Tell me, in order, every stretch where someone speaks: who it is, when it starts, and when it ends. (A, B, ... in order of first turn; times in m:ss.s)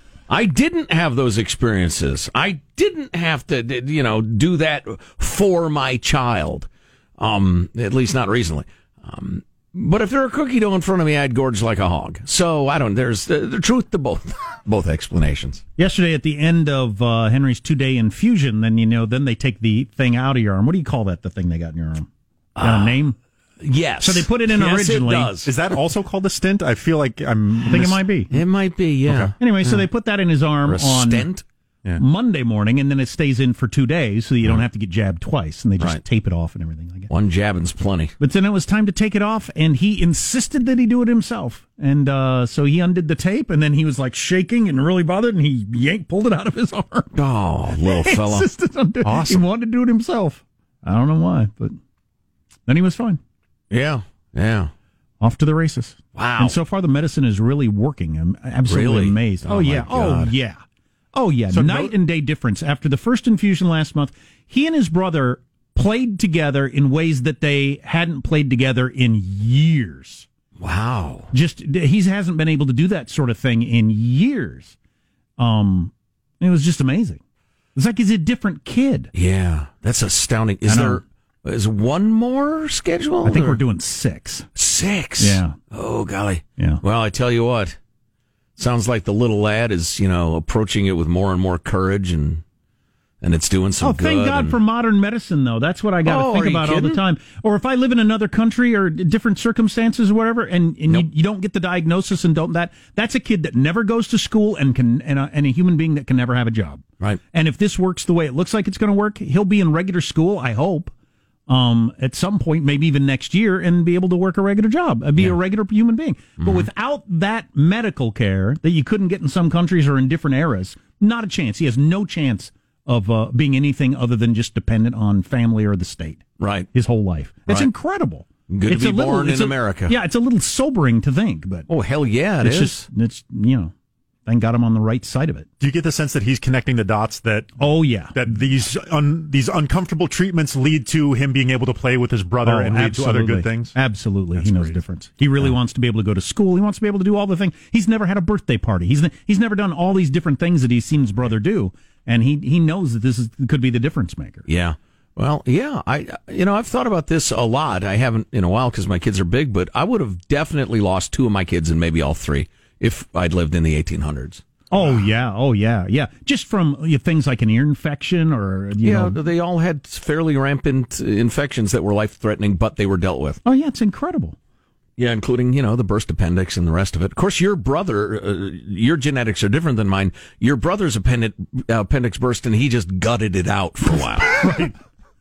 0:00.3-0:15.6 A
0:15.8-0:22.1 B
0:22.6-0:23.0 A
0:22.6-0:23.2 B
0:23.6-0:25.5 A
0:24.0-0:25.3 B
0:25.4-0:28.0 C
0:27.6-0:28.3 B
0:28.3-0:29.8 A
0:29.1-0:29.3 C
0:29.4-0:31.3 B
0:30.6-0:31.4 A
0:32.0-0:37.1 B
0:37.1-0:38.1 A
0:38.2-0:47.1 B
0:47.1-0:48.4 A
0:47.8-0:51.8 B
0:49.0-0:49.4 C
0:52.7-0:53.2 B
0:53.7-0:54.7 A
0:55.2-1:00.6 B
0:56.2-0:56.5 A
0:58.6-1:00.3 A
1:01.1-1:10.3 B
1:01.5-1:01.9 C
1:10.6-1:11.3 A
1:11.3-1:14.7 B
1:15.4-1:17.2 B
1:17.8-1:19.1 B
1:19.1-1:23.6 A
1:20.7-1:21.0 B
1:23.2-1:24.4 B
1:24.6-1:27.8 A
1:25.2-1:25.6 B
1:28.6-1:32.4 A
1:33.2-1:34.6 A
1:33.8-1:50.9 B
1:36.0-1:37.0 A
1:51.5-2:06.2 B
1:56.4-1:56.7 A
2:06.4-2:06.7 A
2:06.7-2:11.7 B
2:08.5-2:09.9 A
2:11.7-2:12.8 A
2:12.4-2:13.7 B
2:14.2-2:15.5 B
2:15.6-2:23.7 C
2:17.6-2:18.2 B
2:22.4-2:34.5 B
2:24.3-2:24.8 C
2:34.5-2:44.9 A
2:44.7-2:49.2 B
2:48.8-2:53.4 A
2:53.4-2:54.4 B
2:55.0-3:04.4 A
3:04.2-3:04.7 B